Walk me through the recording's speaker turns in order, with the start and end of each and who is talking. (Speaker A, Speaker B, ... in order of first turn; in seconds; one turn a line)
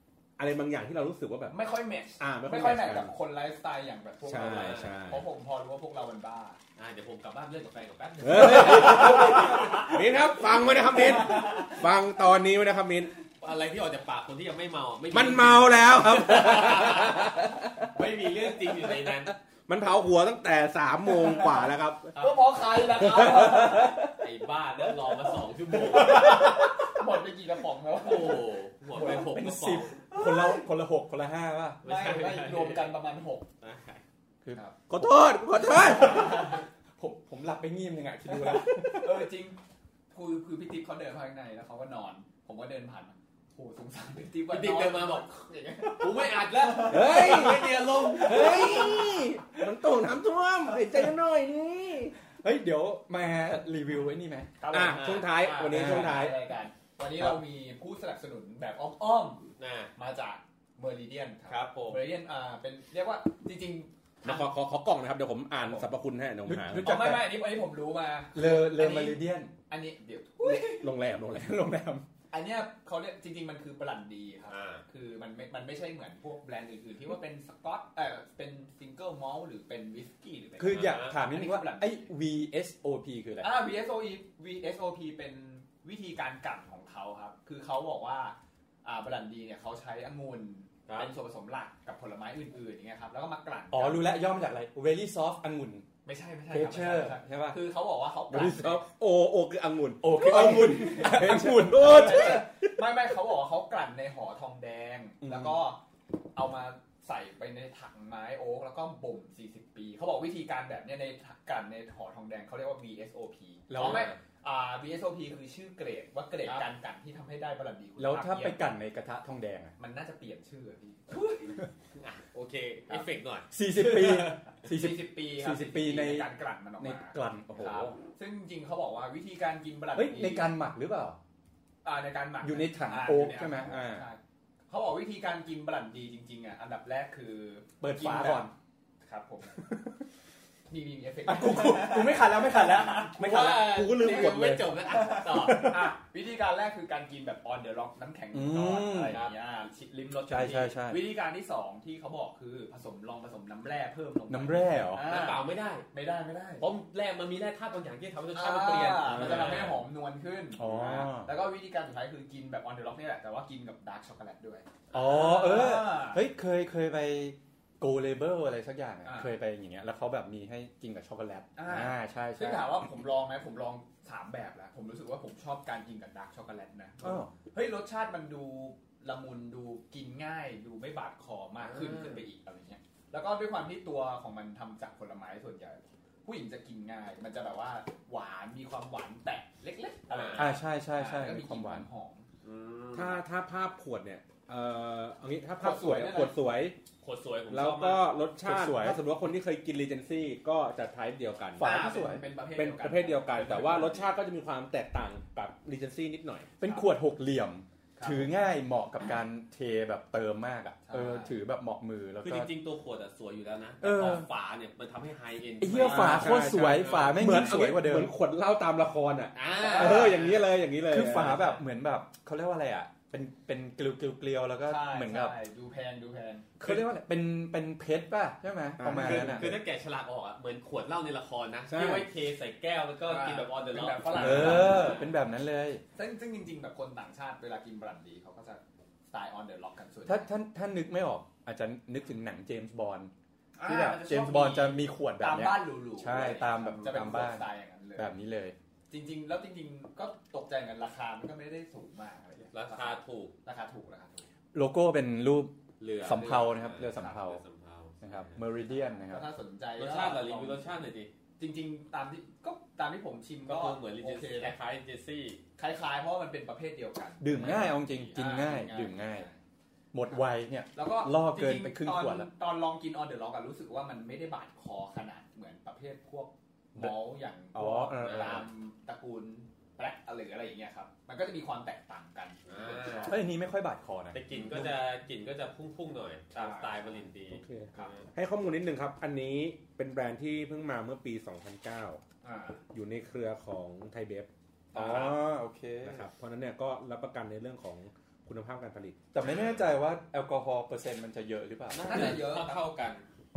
Speaker A: 0.4-1.6
Speaker B: 1.5-6.6
Speaker A: 2.2-3.1
Speaker A: 4.2-5.2
Speaker C: 4.5-4.9
Speaker C: 6.8-10.0
Speaker A: 8.2-13.1
Speaker B: 8.6-11.9
Speaker C: 13.4-19.3
Speaker A: 15.1-17.9
Speaker A: 18.8-22.2
Speaker B: 22.2-24.1
Speaker A: 22.9-24.2
Speaker C: 24.2-26.6
Speaker B: 25.8-29.3
Speaker A: 25.9-26.6
Speaker C: 28.0-29.9
Speaker D: 28.9-31.8
Speaker B: 30.1-30.6
Speaker C: 31.8-33.0
Speaker B: 31.8-33.5
Speaker C: 33.6-34.0
Speaker D: 34.4-39.3
Speaker A: 34.9-36.6
Speaker B: 35.8-36.6
Speaker B: 38.3-39.6
Speaker B: 40.1-49.2
Speaker C: 44.5-45.3
Speaker C: 45.9-49.0
Speaker A: 46.8-52.1
Speaker D: 52.4-54.5
Speaker B: 54.6-64.5
Speaker A: 54.7-56.4
Speaker C: 54.9-55.3
Speaker D: 55.6-56.2
Speaker C: 59.6-59.9
Speaker C: 61.5-62.1
Speaker A: 64.2-67.1
Speaker B: 65.6-65.9
Speaker D: 66.5-67.5
Speaker B: 66.8-70.9
Speaker D: 68.3-69.5
Speaker A: 70.5-71.6
Speaker D: 71.3-72.0
Speaker B: 72.3-82.1
Speaker C: 74.5-74.8
Speaker D: 80.6-83.5
Speaker C: 80.6-81.2
Speaker B: 83.4-94.0
Speaker C: 90.9-91.1
Speaker D: 93.7-95.9
Speaker B: 96.0-98.8
Speaker D: 96.5-97.6
Speaker D: 98.3-98.8
Speaker A: 98.4-102.8
Speaker D: 100.0-102.4
Speaker B: 100.3-105.8
Speaker A: 105.2-105.5
Speaker B: 106.3-118.7
Speaker D: 113.7-114.1
Speaker C: 113.8-114.2
Speaker D: 118.0-119.8
Speaker B: 119.8-121.6
Speaker C: 122.0-123.5
Speaker D: 123.5-128.0
Speaker B: 123.8-130.5
Speaker D: 129.9-131.2
Speaker B: 131.8-138.5
Speaker D: 132.4-134.1
Speaker D: 137.8-138.5
Speaker B: 139.0-139.7
Speaker D: 139.6-140.0
Speaker B: 140.7-143.1
Speaker D: 141.3-144.3
Speaker C: 143.2-145.7
Speaker A: 143.2-144.7
Speaker B: 144.8-156.7
Speaker D: 145.2-145.9
Speaker D: 148.3-149.2
Speaker D: 150.3-151.1
Speaker D: 154.3-155.1
Speaker C: 155.0-155.9
Speaker C: 156.6-159.8
Speaker B: 158.3-166.2
Speaker A: 159.1-159.6
Speaker D: 160.6-161.3
Speaker D: 164.9-172.7
Speaker B: 169.0-169.3
Speaker B: 171.6-192.3
Speaker D: 177.0-177.3
Speaker C: 181.6-182.2
Speaker C: 190.1-190.5
Speaker D: 190.4-191.9
Speaker C: 192.4-193.2
Speaker A: 192.9-196.8
Speaker B: 195.6-196.4
Speaker C: 197.0-198.2
Speaker A: 197.5-201.7
Speaker D: 198.4-199.0
Speaker D: 201.6-202.2
Speaker B: 201.6-204.1
Speaker A: 202.5-206.5
Speaker D: 206.6-212.5
Speaker B: 206.6-206.9
Speaker B: 208.0-208.3
Speaker B: 210.8-211.3
Speaker C: 212.2-217.3
Speaker D: 213.8-214.3
Speaker D: 215.6-218.1
Speaker A: 215.8-221.5
Speaker C: 219.3-220.4
Speaker B: 219.6-220.3
Speaker D: 219.8-220.1
Speaker D: 220.8-225.3
Speaker B: 224.7-226.5
Speaker D: 226.6-229.6
Speaker A: 228.8-229.6
Speaker C: 228.9-235.1
Speaker A: 231.7-232.1
Speaker B: 233.1-235.0
Speaker D: 234.1-235.8
Speaker B: 236.0-240.3
Speaker D: 240.1-243.1
Speaker B: 243.6-248.1
Speaker D: 243.6-247.4
Speaker D: 248.0-248.6
Speaker B: 248.9-254.3
Speaker C: 252.5-253.3
Speaker D: 254.5-257.4
Speaker C: 255.8-258.4
Speaker B: 256.1-257.2
Speaker D: 258.0-259.3
Speaker B: 258.7-260.7
Speaker C: 259.8-261.1
Speaker B: 261.4-264.6
Speaker C: 263.5-265.4
Speaker B: 265.6-269.4
Speaker D: 267.2-269.3
Speaker C: 267.4-267.7
Speaker D: 269.9-272.3
Speaker B: 270.8-283.2
Speaker D: 277.5-278.5
Speaker C: 278.0-278.5
Speaker C: 282.5-283.2
Speaker D: 283.1-284.7
Speaker C: 284.1-288.1
Speaker B: 286.3-287.1
Speaker A: 287.3-292.0
Speaker B: 292.2-292.6
Speaker A: 292.7-295.1
Speaker B: 294.7-295.1
Speaker D: 294.7-296.1
Speaker A: 295.8-299.0
Speaker D: 299.1-302.2
Speaker C: 299.2-299.6
Speaker C: 301.7-303.1
Speaker B: 301.8-302.6